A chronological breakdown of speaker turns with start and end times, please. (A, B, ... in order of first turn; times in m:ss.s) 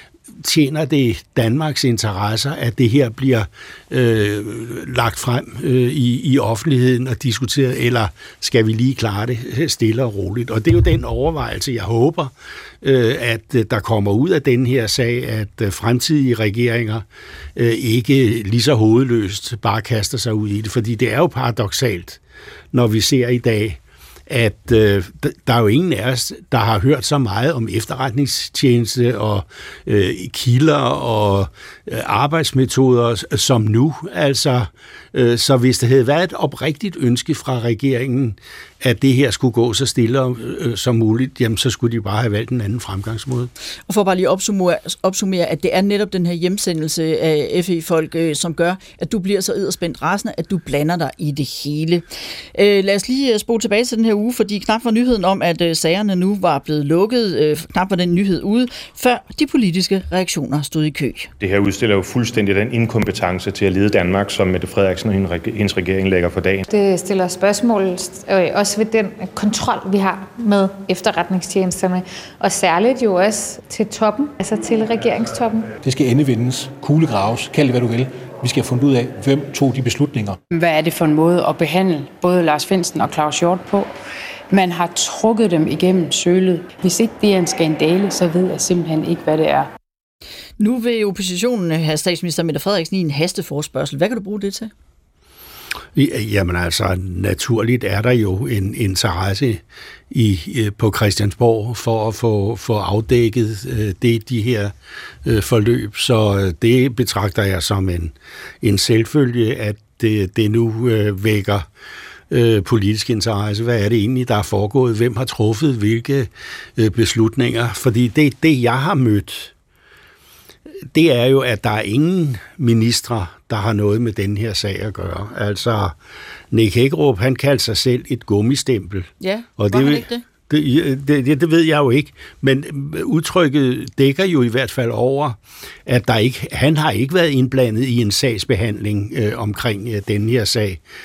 0:00.4-0:22.2 A
0:22.7-0:43.5 A
0:43.9-0:52.0 B
0:52.5-1:01.3 B
1:01.4-1:06.6 C
1:06.7-1:15.7 D
1:15.8-1:20.4 E
1:20.5-1:23.9 F
1:24.5-1:29.7 F
1:30.6-1:34.7 B
1:35.9-1:44.7 A
1:45.2-1:51.7 A
1:52.3-1:59.5 A
2:00.9-2:05.9 A
2:06.5-2:20.8 A
2:09.2-2:10.2 B